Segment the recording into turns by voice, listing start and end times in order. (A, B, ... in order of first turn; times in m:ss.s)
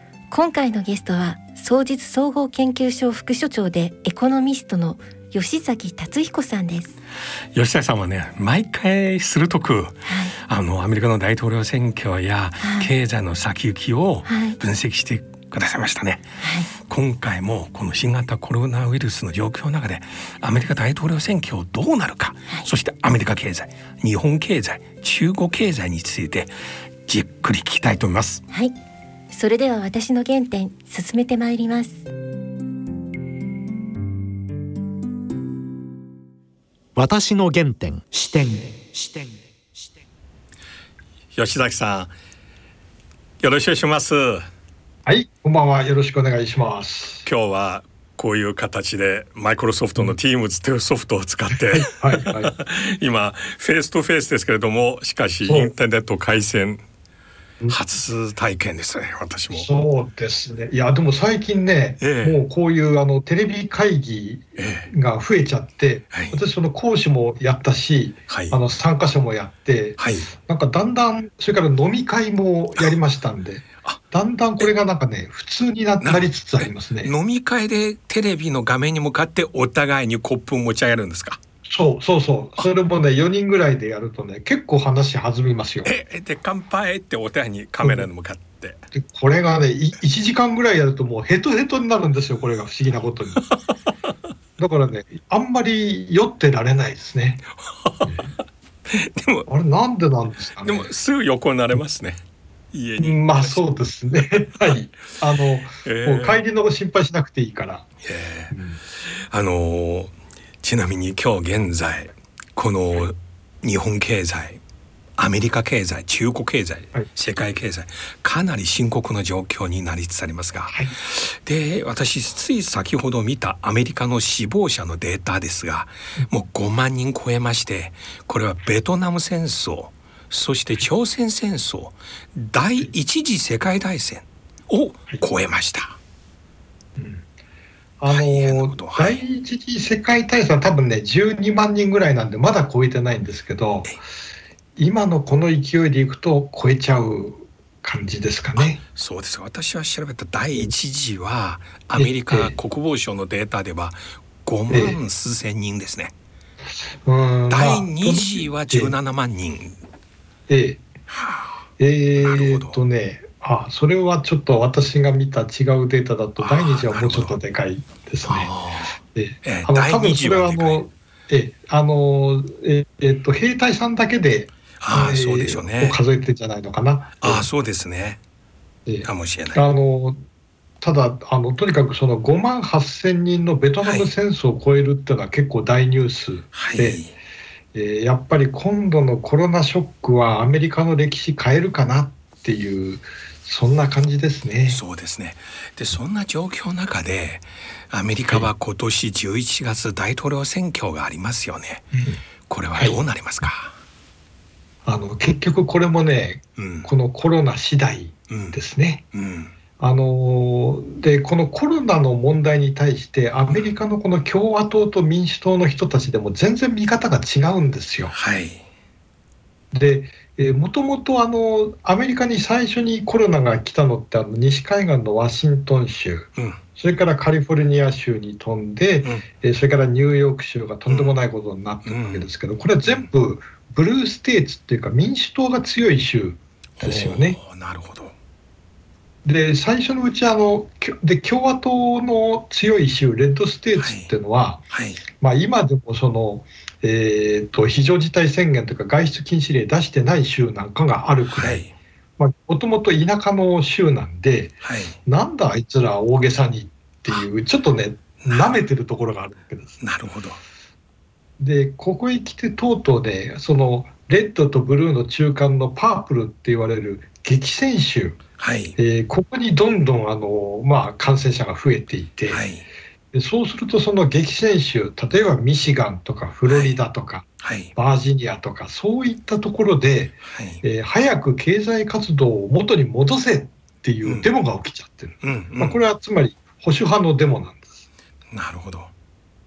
0:00.3-0:07.0 A
0:07.6-0:26.5 B
0:10.1-0:10.4 A
0:12.6-0:12.9 A
0:14.3-0:14.6 A
0:16.4-0:16.7 A
0:27.1-0:28.4 B
0:29.3-0:32.0 A
0:37.0-0:40.0 C
0:41.3-0:42.1 B
0:43.4-0:44.5 B
0:45.1-0:47.3 D
0:47.2-0:56.8 B
0:51.7-0:52.5 D
0:55.4-0:55.7 D
0:57.7-0:59.7 B
0:59.5-1:17.1 D
1:02.0-1:02.4 B
1:04.6-1:04.9 B
1:06.1-1:06.4 B
1:08.3-1:08.6 B
1:10.0-1:10.3 B
1:16.0-1:21.4 B
1:21.7-1:25.9 D
1:25.8-1:28.8 B
1:27.8-1:28.1 D
1:28.9-1:33.4 D
1:34.6-1:37.4 D
1:37.8-1:38.3 B
1:38.0-1:38.3 D
1:38.9-1:39.5 B
1:39.5-1:40.9 D
1:40.6-1:42.2 B
1:42.7-1:43.6 B
1:43.0-1:47.9 D
1:44.2-1:44.8 B
1:45.8-1:46.4 B
1:48.0-1:54.6 B
1:48.5-1:48.8 D
1:55.2-2:16.0 B
2:17.0-2:17.2 D
2:18.0-2:24.0 D
2:18.1-2:19.2 B
2:24.8-2:28.8 D
2:28.6-2:36.1 B
2:32.0-2:32.5 D
2:34.7-2:35.0 D
2:37.0-2:38.9 D
2:37.5-2:39.8 B
2:40.5-2:40.8 D
2:41.1-2:42.8 B
2:41.8-2:48.5 D
2:46.4-2:47.3 B
2:48.3-2:50.8 B
2:49.1-2:57.5 D
2:54.8-2:56.0 B
2:57.2-2:58.2 B
2:58.9-3:00.2 D
2:59.0-2:59.6 B
3:00.8-3:07.0 D
3:03.8-3:04.1 B
3:06.5-3:07.1 B
3:07.7-3:14.8 D
3:14.7-3:21.9 B
3:21.9-3:22.2 D
3:22.5-3:23.7 B
3:22.8-3:23.0 D
3:24.8-3:29.0 D
3:26.6-3:26.9 B
3:28.3-3:28.6 B
3:29.1-3:29.5 B
3:29.8-3:38.2 D
3:33.5-3:33.7 B
3:38.1-3:38.6 B
3:39.7-3:57.4 D
3:46.4-3:46.6 B
3:50.9-3:51.2 B
3:51.8-3:52.3 B
3:52.8-3:53.1 B
3:56.8-3:58.1 B
3:59.2-4:04.6 D
4:03.8-4:04.1 B
4:04.7-4:05.0 B
4:05.2-4:11.6 D
4:11.3-4:11.7 B
4:12.2-4:19.8 D
4:14.6-4:15.0 B
4:18.2-4:18.6 B
4:19.8-4:20.4 B
4:21.4-4:28.2 D
4:28.4-4:28.8 B
4:28.8-4:32.4 D
4:32.3-4:32.6 B
4:33.1-4:47.8 D
4:36.5-4:36.8 B
4:37.4-4:37.7 B
4:40.3-4:40.6 B
4:45.2-4:45.8 B
4:48.3-4:48.9 B